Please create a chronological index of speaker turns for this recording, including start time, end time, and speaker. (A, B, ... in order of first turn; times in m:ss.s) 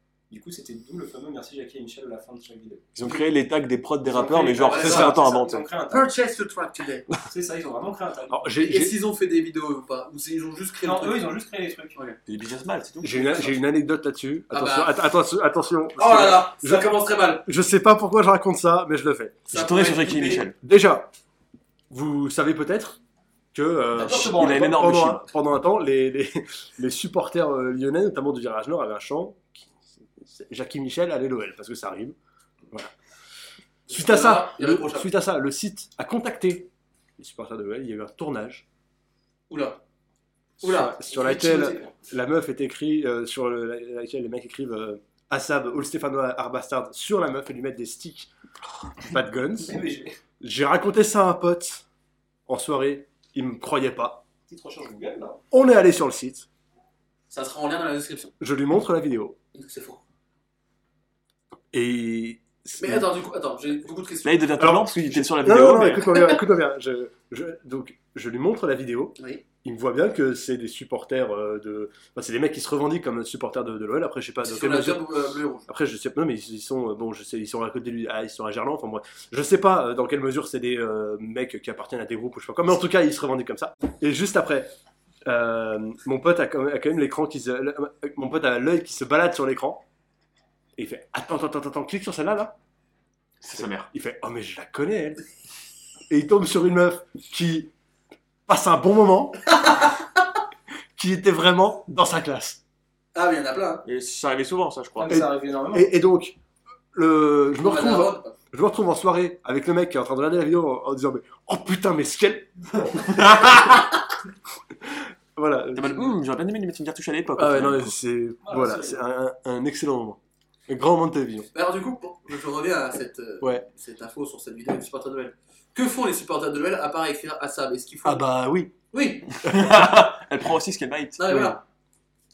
0:00.3-0:02.8 A
0:02.9-0:05.6 B
0:04.0-0:06.1 A
0:04.6-0:05.2 C
0:04.8-0:05.1 D
0:05.9-0:07.1 C
0:07.3-0:08.4 A
0:08.3-0:09.0 D
0:08.6-0:11.3 C
0:10.8-0:12.0 A
0:12.2-0:13.6 B
0:13.0-0:19.4 D
0:14.5-0:14.9 C
0:16.0-0:17.4 C
0:19.5-0:20.5 C
0:19.5-0:20.5 B
0:20.6-0:21.1 D
0:21.9-0:23.0 D
0:23.5-0:32.2 D
0:23.9-0:24.9 A
0:24.1-0:25.3 B
0:33.9-0:35.1 C
0:33.9-0:38.6 D
0:39.5-0:39.8 C
0:40.6-0:48.3 D
0:40.6-0:42.0 C
0:49.0-0:49.8 D
0:49.6-0:50.2 A
0:50.4-0:51.8 D
0:52.5-0:54.2 D
0:54.5-0:55.4 A
0:55.5-0:56.5 D
0:57.3-0:58.3 C
0:58.4-0:59.4 D
0:59.5-1:00.0 C
1:01.7-1:03.1 D
1:02.8-1:04.5 C
1:04.2-1:06.2 B
1:04.6-1:15.1 D
1:09.2-1:09.4 C
1:14.4-1:15.7 C
1:15.6-1:24.7 D
1:25.2-1:29.8 D
1:30.8-1:32.5 D
1:33.4-1:33.9 B
1:33.5-1:35.2 D
1:36.1-1:37.7 D
1:38.5-1:39.5 D
1:41.0-1:42.6 D
1:43.1-1:43.8 C
1:43.8-1:45.2 B
1:45.0-1:45.9 A
1:45.1-1:46.4 D
1:46.9-1:53.9 D
1:47.6-1:48.4 C
1:54.8-1:56.1 D
1:55.7-1:58.0 B
1:57.4-2:01.5 D
1:58.4-1:59.0 A
2:01.5-2:09.4 C
2:03.4-2:03.6 D
2:08.0-2:08.7 D
2:09.4-2:10.1 D
2:09.4-2:11.3 B
2:11.2-2:11.6 C
2:11.3-2:11.6 D